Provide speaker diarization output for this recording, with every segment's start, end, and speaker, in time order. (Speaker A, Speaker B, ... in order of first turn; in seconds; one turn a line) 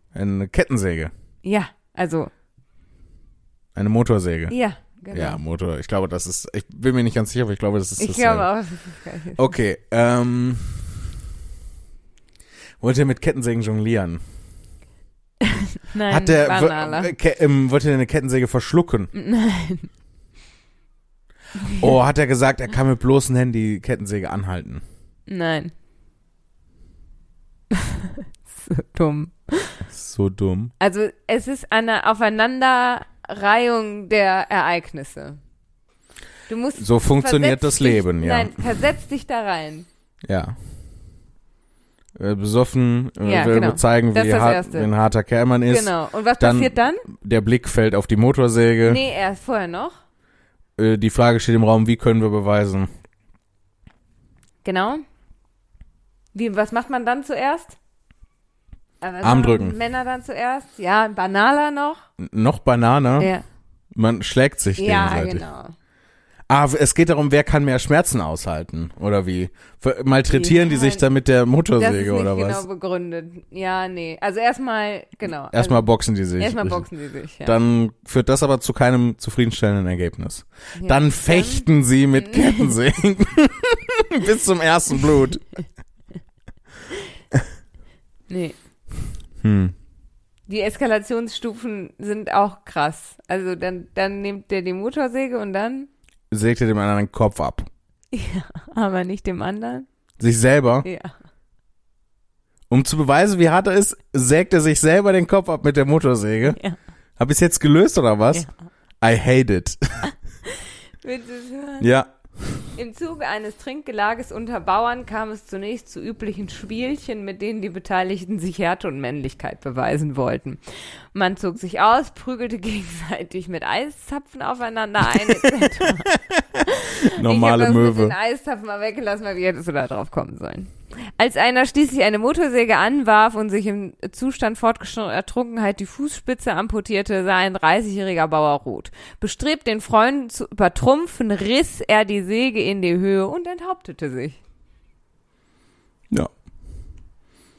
Speaker A: 0.1-1.1
Speaker B: 1.4-2.3
Speaker A: 3.8-4.5
Speaker B: 4.5-5.4
Speaker A: 5.1-8.5
Speaker B: 8.0-9.5
Speaker A: 9.3-11.0
Speaker A: 12.8-14.2
Speaker B: 15.4-17.1
Speaker A: 16.1-19.1
Speaker B: 19.1-19.9
Speaker A: 21.7-24.8
Speaker B: 25.3-25.7
Speaker B: 27.7-29.8
Speaker A: 29.9-30.7
Speaker B: 30.8-35.4
Speaker B: 36.5-39.9
Speaker A: 36.7-38.6
Speaker A: 40.3-40.6
Speaker A: 42.2-49.0
Speaker B: 43.2-44.9
Speaker B: 45.7-47.0
Speaker B: 48.8-50.0
Speaker A: 50.8-52.9
Speaker B: 54.6-55.0
Speaker B: 56.3-57.8
Speaker B: 59.0-62.0
Speaker A: 59.2-59.8
Speaker A: 62.2-63.3
Speaker B: 63.2-63.4
Speaker A: 63.9-65.4
Speaker B: 64.8-65.7
Speaker A: 66.5-72.6
Speaker B: 70.3-71.0
Speaker B: 71.8-77.5
Speaker A: 75.5-76.8
Speaker A: 77.4-85.5
Speaker B: 80.8-82.7
Speaker B: 88.3-88.5
Speaker A: 89.4-89.7
Speaker B: 90.5-95.9
Speaker A: 96.3-97.7
Speaker B: 98.1-99.9
Speaker A: 100.2-100.9
Speaker B: 100.8-101.1
Speaker A: 102.7-106.6
Speaker B: 106.5-106.8
Speaker A: 107.2-108.5
Speaker A: 109.0-110.1
Speaker B: 110.5-111.9
Speaker A: 111.8-112.6
Speaker B: 112.8-144.4
Speaker A: 125.3-128.2